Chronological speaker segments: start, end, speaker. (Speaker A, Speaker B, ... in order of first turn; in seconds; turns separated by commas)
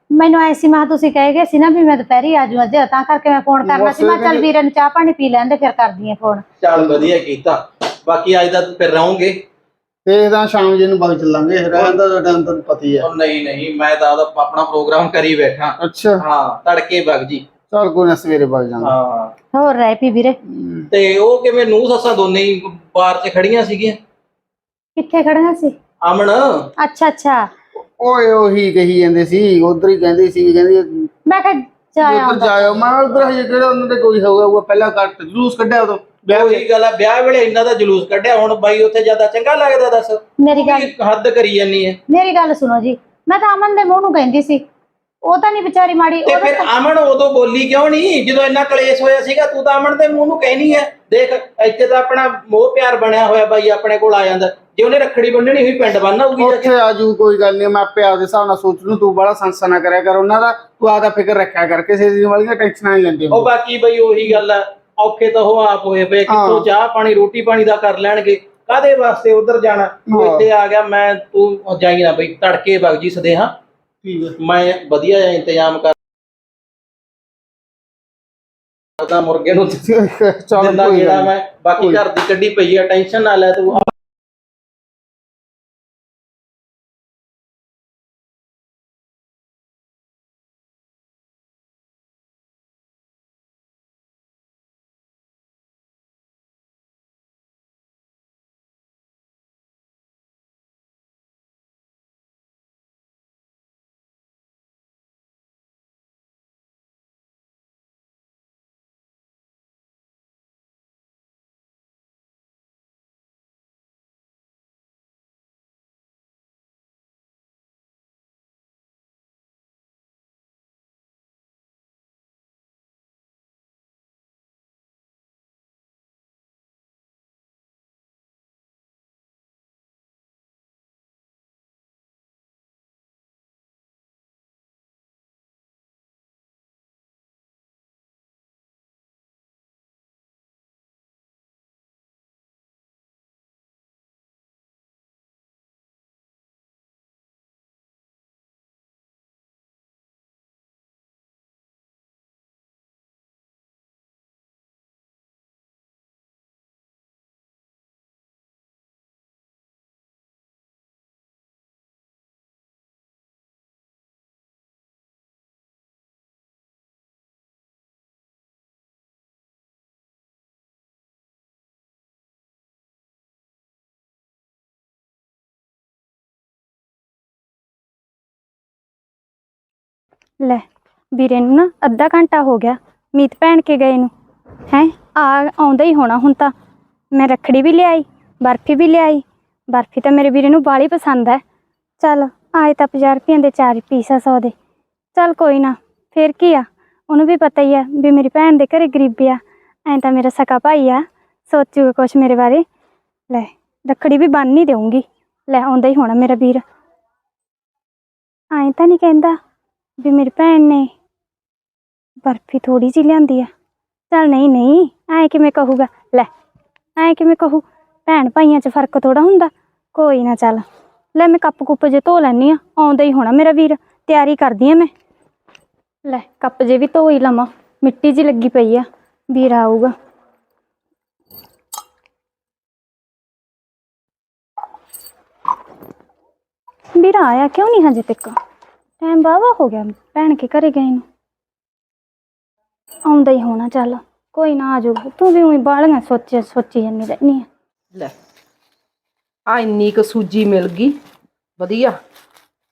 Speaker A: 0.2-6.5, Speaker B: 3.6-4.5, Speaker C: 6.6-9.4, Speaker B: 10.1-13.1, Speaker C: 13.0-17.5, Speaker B: 15.8-16.2, Speaker B: 17.7-18.9, Speaker C: 18.8-19.3, Speaker A: 19.5-20.4, Speaker B: 20.5-20.9, Speaker C: 20.9-24.0, Speaker A: 25.0-25.8, Speaker C: 26.0-26.7, Speaker A: 26.8-27.5, Speaker B: 28.0-31.1, Speaker A: 31.3-32.7, Speaker B: 32.0-36.6, Speaker C: 36.3-42.0, Speaker A: 40.4-40.9, Speaker A: 42.1-44.6, Speaker A: 45.2-46.7, Speaker C: 46.3-56.7, Speaker B: 56.4-63.5, Speaker C: 63.3-73.5, Speaker B: 66.3-66.7, Speaker B: 70.1-70.5, Speaker B: 74.0-74.4, Speaker C: 74.4-76.0, Speaker C: 79.0-79.8, Speaker B: 79.7-82.0, Speaker C: 80.6-83.9, Speaker D: 180.4-184.1, Speaker D: 184.7-186.5, Speaker D: 187.1-191.4, Speaker D: 192.0-194.5, Speaker D: 195.2-202.7, Speaker D: 203.3-206.6, Speaker D: 208.5-209.4, Speaker D: 210.0-210.9, Speaker D: 212.2-213.5, Speaker D: 214.1-216.3, Speaker D: 217.0-224.9, Speaker D: 226.1-229.9, Speaker D: 237.0-238.3, Speaker D: 239.0-241.1, Speaker D: 243.1-247.5, Speaker E: 249.5-251.0, Speaker E: 251.6-252.0